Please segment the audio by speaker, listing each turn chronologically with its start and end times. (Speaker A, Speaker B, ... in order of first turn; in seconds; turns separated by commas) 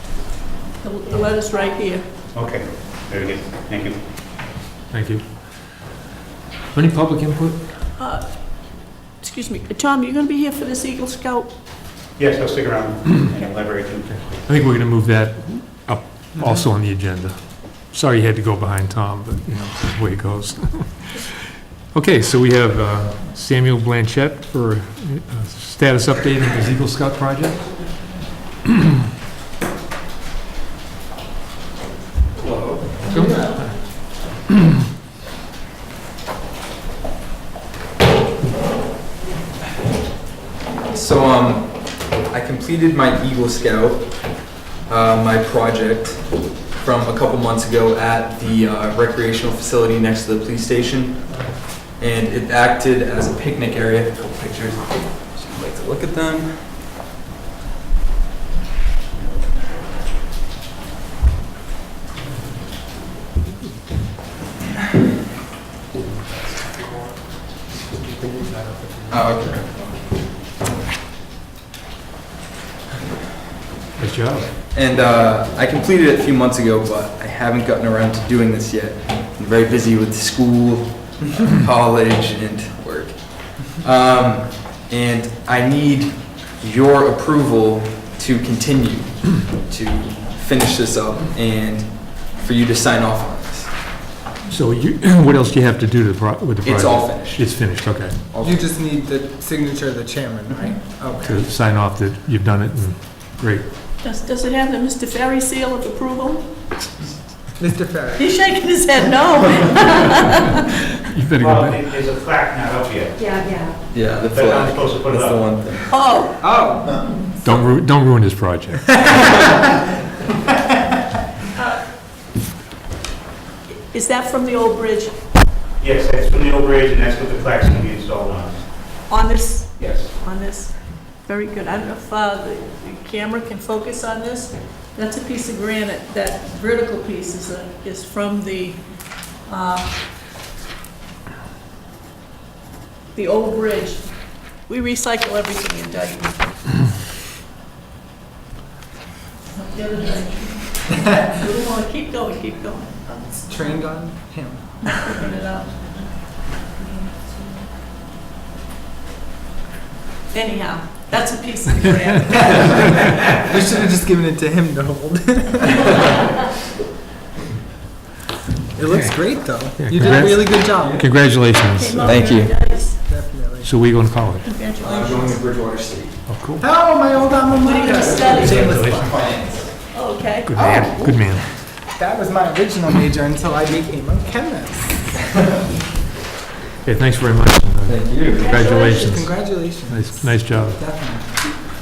Speaker A: 0.8-2.0, Speaker B: 2.3-4.0, Speaker C: 4.9-5.2, Speaker C: 6.7-7.6, Speaker A: 8.0-11.5, Speaker B: 12.2-14.3, Speaker C: 14.4-21.3, Speaker C: 21.9-27.6, Speaker D: 32.4-32.9, Speaker C: 33.0-33.8, Speaker D: 40.7-56.7, Speaker C: 68.1-69.2, Speaker D: 69.1-69.8, Speaker C: 74.0-74.5, Speaker D: 74.7-93.7, Speaker C: 94.5-98.3, Speaker D: 96.6-98.6, Speaker E: 98.4-101.5, Speaker C: 101.2-103.6, Speaker A: 104.0-106.5, Speaker E: 107.6-108.4, Speaker A: 108.2-110.8, Speaker C: 111.0-111.8, Speaker B: 111.3-113.4, Speaker D: 113.9-116.0, Speaker B: 114.3-115.5, Speaker A: 115.9-116.5, Speaker E: 116.4-117.2, Speaker C: 117.4-119.1, Speaker E: 118.9-119.6, Speaker A: 121.5-121.8, Speaker A: 123.9-125.1, Speaker B: 125.8-128.6, Speaker A: 129.1-138.8, Speaker B: 129.8-130.1, Speaker A: 139.3-140.0, Speaker A: 143.1-146.5, Speaker A: 149.5-152.9, Speaker E: 153.0-154.9, Speaker A: 154.8-157.6, Speaker A: 160.3-162.8, Speaker E: 162.3-162.8, Speaker E: 163.4-166.0, Speaker E: 168.7-171.3, Speaker C: 168.8-172.2, Speaker D: 170.8-171.0, Speaker A: 171.6-173.0, Speaker D: 172.1-172.5, Speaker E: 172.1-174.0, Speaker C: 173.6-174.5, Speaker A: 174.4-175.4, Speaker D: 174.7-176.2, Speaker C: 176.2-176.6, Speaker E: 176.6-179.1, Speaker A: 177.6-178.6, Speaker D: 178.1-179.7, Speaker C: 178.3-179.2, Speaker A: 179.2-180.5, Speaker C: 180.4-181.5, Speaker E: 180.5-185.1, Speaker C: 186.8-190.8, Speaker D: 187.8-188.5, Speaker A: 188.2-188.9, Speaker E: 188.7-191.4